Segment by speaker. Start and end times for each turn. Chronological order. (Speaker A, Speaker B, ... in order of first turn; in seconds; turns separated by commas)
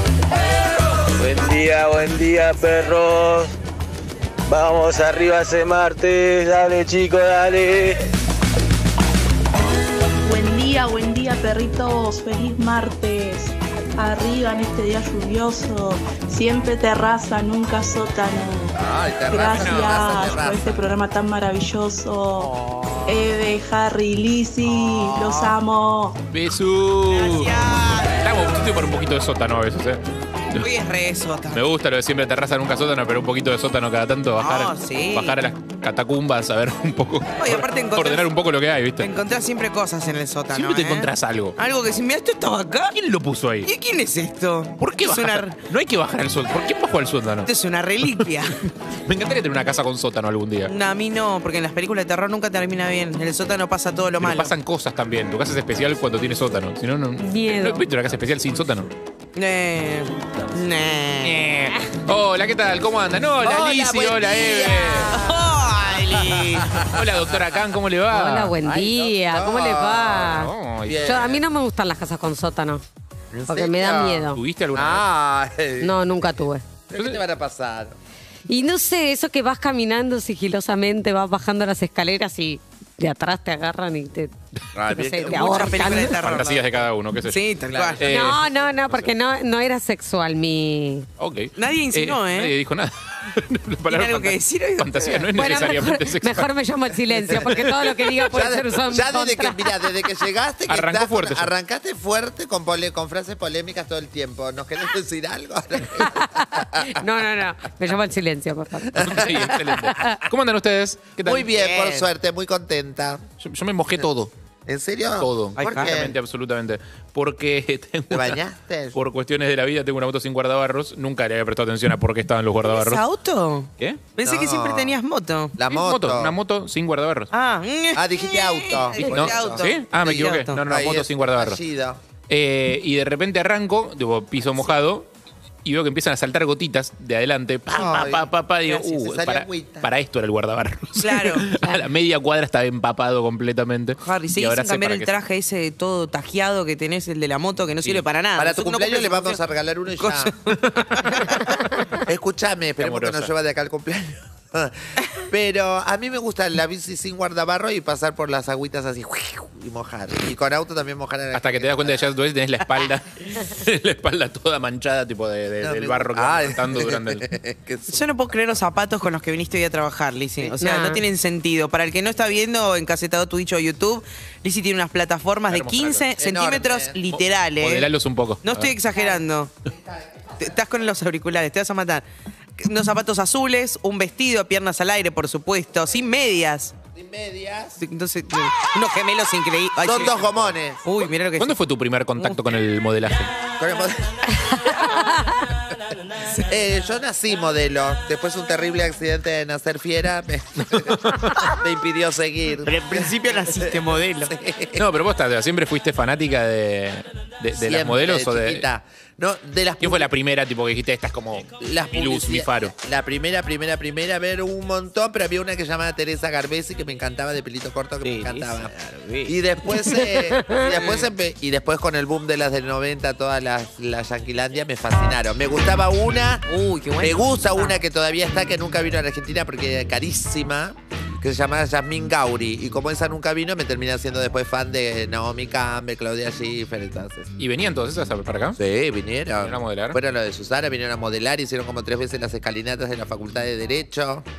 Speaker A: 1.1-3.5, Speaker A: 4.5-8.0, Speaker B: 10.2-22.5, Speaker C: 18.8-20.9, Speaker D: 19.5-20.4, Speaker B: 23.1-26.2, Speaker E: 25.2-25.5, Speaker D: 26.3-30.7, Speaker E: 27.1-28.3, Speaker E: 30.6-31.6, Speaker D: 31.5-39.1, Speaker E: 34.4-35.4, Speaker E: 37.4-38.3, Speaker E: 39.0-43.0, Speaker D: 40.5-41.6, Speaker D: 42.9-43.7, Speaker E: 43.6-45.6, Speaker D: 44.8-47.5, Speaker E: 47.5-48.7, Speaker D: 49.1-50.7, Speaker E: 50.7-54.5, Speaker D: 54.2-58.9, Speaker F: 57.2-57.8, Speaker E: 59.4-61.4, Speaker D: 61.2-65.2, Speaker C: 63.4-65.2, Speaker E: 65.1-66.8, Speaker C: 66.2-67.1, Speaker D: 66.9-68.5, Speaker F: 68.1-72.8, Speaker C: 68.6-71.4, Speaker D: 70.3-71.1, Speaker C: 73.3-76.0, Speaker F: 73.5-74.4, Speaker D: 74.3-75.1, Speaker F: 75.8-76.6, Speaker C: 76.9-78.0, Speaker F: 78.5-84.3, Speaker C: 84.7-85.8, Speaker F: 84.9-86.1, Speaker E: 85.2-88.2, Speaker D: 85.9-89.1, Speaker F: 88.0-91.1, Speaker D: 91.2-96.5, Speaker E: 91.6-92.5, Speaker E: 93.9-95.3, Speaker F: 95.3-99.9, Speaker D: 97.1-98.1, Speaker C: 97.4-97.7, Speaker C: 98.3-107.2, Speaker D: 100.7-101.5, Speaker F: 106.3-110.1, Speaker C: 108.9-109.5, Speaker D: 109.0-111.5, Speaker C: 111.2-113.2, Speaker E: 111.3-112.1, Speaker D: 113.4-114.3, Speaker C: 114.7-116.2, Speaker D: 115.2-118.4, Speaker E: 115.6-115.9, Speaker C: 118.1-119.0, Speaker D: 118.9-123.0, Speaker E: 122.7-125.6, Speaker C: 124.2-125.0, Speaker C: 125.6-126.3, Speaker D: 125.7-127.3, Speaker E: 127.3-130.6, Speaker C: 127.9-132.0, Speaker D: 129.1-131.6, Speaker D: 132.3-135.1, Speaker D: 135.7-145.2, Speaker C: 137.7-139.9, Speaker E: 141.0-141.5, Speaker E: 144.0-149.4, Speaker C: 148.4-150.3, Speaker E: 150.0-151.7, Speaker C: 151.9-162.1, Speaker D: 152.8-153.3, Speaker D: 161.3-167.2, Speaker C: 165.6-168.1, Speaker E: 167.9-177.9, Speaker F: 170.6-171.0, Speaker D: 175.5-176.1, Speaker C: 176.2-177.2, Speaker D: 177.6-178.7, Speaker E: 178.4-179.5, Speaker E: 180.4-182.0, Speaker E: 182.6-186.8, Speaker C: 186.9-187.8, Speaker E: 187.8-191.6, Speaker C: 189.8-190.8, Speaker D: 191.4-193.3, Speaker C: 193.6-194.5, Speaker C: 196.4-204.8, Speaker D: 200.7-201.4, Speaker E: 202.6-204.3, Speaker D: 204.8-208.7, Speaker C: 207.6-210.1, Speaker D: 209.8-212.7, Speaker C: 211.6-218.7, Speaker E: 218.0-219.3, Speaker C: 219.2-226.5, Speaker E: 220.6-221.1, Speaker E: 226.5-227.8, Speaker C: 227.0-237.3, Speaker D: 237.4-238.6, Speaker C: 238.6-244.3, Speaker D: 239.4-240.0